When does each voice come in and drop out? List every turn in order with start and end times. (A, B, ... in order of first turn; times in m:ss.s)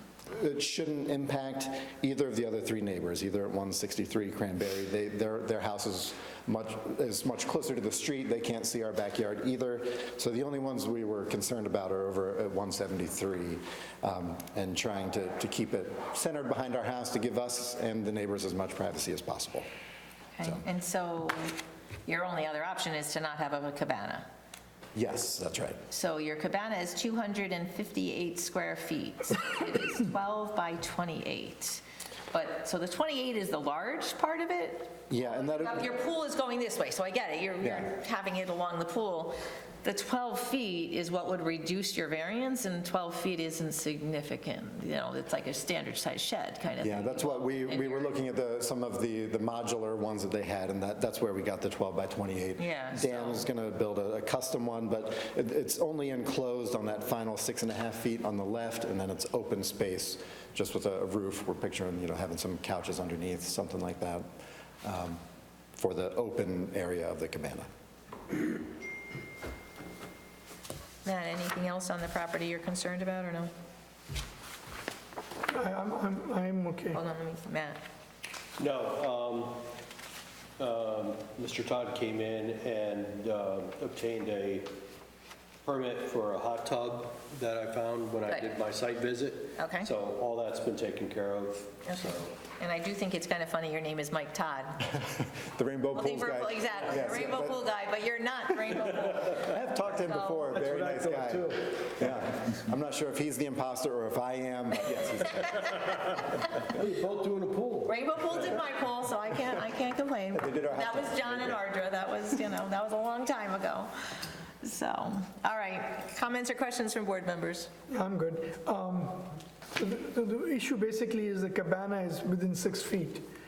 0:00.3-0:19.7 A
0:20.4-0:24.3 B
0:25.0-0:25.8 A
0:25.9-0:48.1 B
0:35.1-0:35.9 A
0:37.6-0:37.9 A
0:46.8-1:04.3 A
0:52.6-0:53.4 B
1:04.8-1:05.2 A
1:05.8-1:07.7 A
1:11.0-1:13.5 B
1:15.5-1:17.0 C
1:16.9-1:17.8 B
1:18.6-1:19.6 D
1:20.6-1:24.7 D
1:25.6-1:32.3 D
1:28.3-1:28.6 B
1:29.6-1:29.9 B
1:31.8-1:35.0 B
1:34.9-1:37.6 A
1:35.9-1:40.6 B
1:39.3-1:46.0 A
1:40.6-1:41.8 D
1:46.6-1:47.9 D
1:47.8-1:53.9 B
1:50.3-1:51.6 A
1:54.6-1:57.7 B
1:57.9-2:03.3 C